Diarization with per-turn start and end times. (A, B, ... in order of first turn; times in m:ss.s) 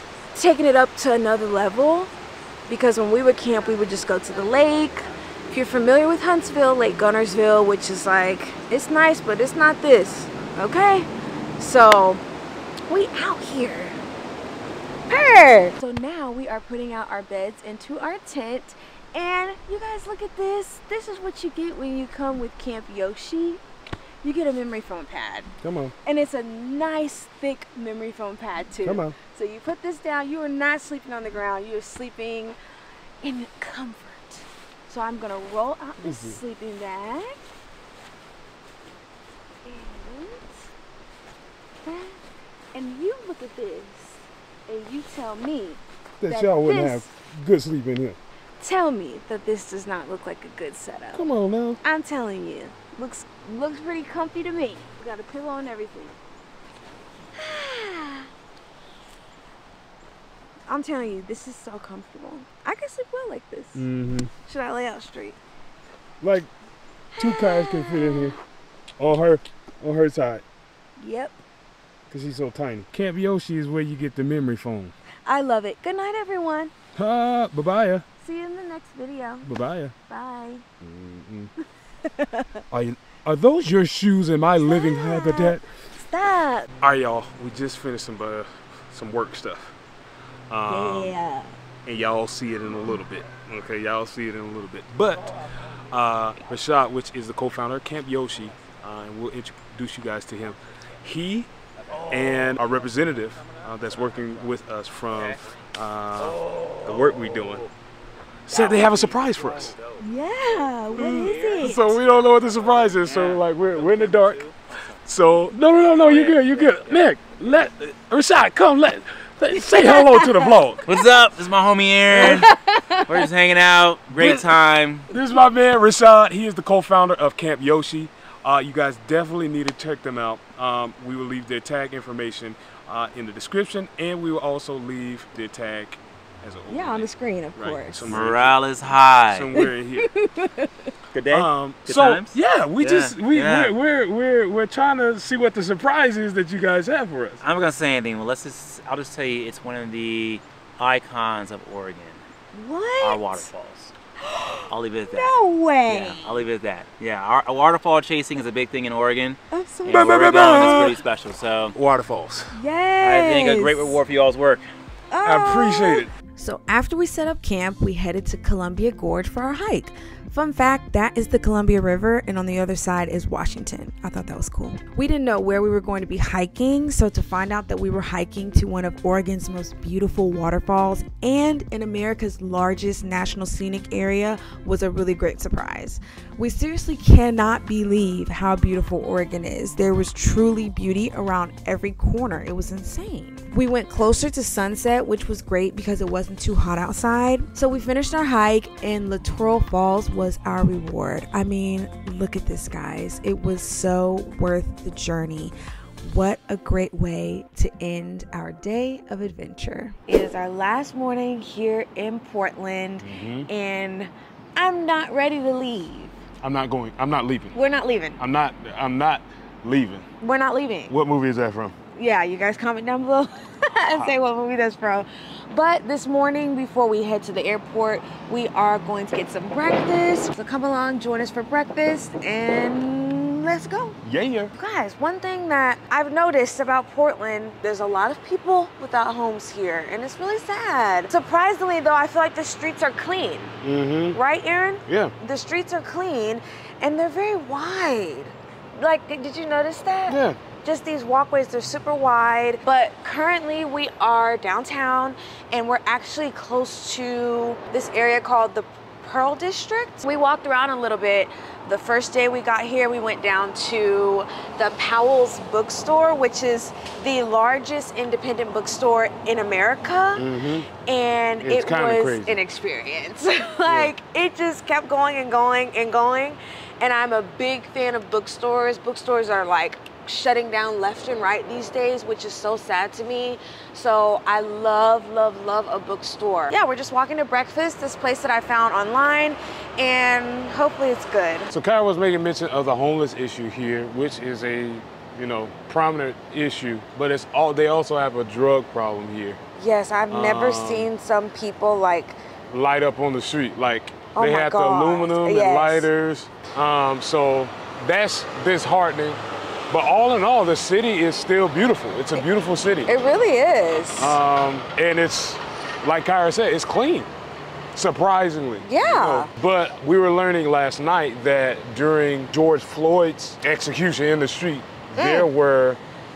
0:00.3-0:02.1 A
0:02.7-0:12.2 A
0:12.9-0:14.0 A
0:15.1-0:23.6 A
0:24.2-0:25.5 A
0:25.6-0:25.9 B
0:26.0-0:32.6 A
0:28.8-0:29.2 B
0:33.2-0:37.4 A
0:36.0-0:36.4 B
0:39.6-0:40.5 A
0:41.8-0:42.2 A
0:42.7-0:47.1 A
0:46.2-0:48.2 B
0:48.6-0:51.3 A
0:51.1-0:51.8 B
0:51.8-0:56.2 A
0:57.4-0:58.3 A
1:00.7-1:03.8 A
1:03.8-1:04.3 B
1:04.5-1:05.4 A
1:06.2-1:06.5 B
1:07.1-1:08.4 A
1:07.2-1:08.4 B
1:09.0-1:10.4 B
1:11.0-1:11.4 A
1:12.1-1:14.9 B
1:15.2-1:16.7 A
1:17.0-1:18.0 B
1:18.2-1:19.5 A
1:19.4-1:19.9 B
1:20.1-1:20.6 A
1:20.8-1:21.5 B
1:22.0-1:22.6 A
1:22.7-1:25.6 B
1:24.6-1:26.7 A
1:26.8-1:29.8 B
1:30.5-1:31.2 B
1:30.7-1:31.6 A
1:31.9-1:35.3 B
1:35.9-1:41.5 B
1:41.9-1:42.6 C
1:42.1-1:47.6 B
1:46.2-1:47.7 C
1:48.5-1:49.8 B
1:48.5-1:50.0 C
1:50.0-1:52.0 A
1:50.8-1:51.7 C
1:50.9-1:54.4 B
1:52.6-1:54.6 C
1:55.1-2:00.9 B
1:55.9-1:57.0 C
1:59.7-2:00.6 A
2:00.9-2:02.5 C
2:02.1-2:02.5 B
2:02.2-2:03.0 A
2:03.0-2:05.1 C
2:04.1-2:04.5 B
2:05.1-2:18.7 B
2:16.7-2:18.2 A
2:18.1-2:19.6 C
2:19.2-2:20.1 B
2:19.6-2:20.9 A
2:21.1-2:23.8 C
2:21.3-2:27.4 B
2:27.4-2:32.2 C
2:32.5-2:33.5 A
2:33.0-2:33.9 C
2:34.2-2:36.3 A
2:34.7-2:41.8 C
2:39.5-2:40.9 A
2:39.9-2:41.0 B
2:41.7-2:42.6 B
2:42.5-2:44.0 A
2:43.0-2:44.7 C
2:45.1-3:36.1 A
2:45.2-2:46.1 B
3:33.0-3:33.5 B
3:36.4-3:37.6 B
3:37.5-3:38.2 A
3:38.2-3:40.1 B
3:40.2-3:40.9 A
3:40.9-3:41.8 B
3:41.9-3:54.0 A
3:54.0-3:54.5 B
3:54.5-4:03.5 A
4:03.6-4:04.2 B
4:04.1-4:30.3 A
4:04.9-4:05.1 B
4:10.1-4:10.4 B
4:30.2-4:30.7 B
4:30.8-4:51.5 A
4:31.4-4:32.4 B
4:33.7-4:33.9 B
4:51.5-4:59.4 B
4:59.6-5:02.2 A
5:00.1-5:00.9 B
5:02.5-5:12.9 B
5:04.2-5:05.9 A
5:12.8-5:14.2 A
5:14.0-5:17.1 B
5:17.8-5:25.8 B
5:18.6-5:19.3 A
5:25.0-5:25.3 A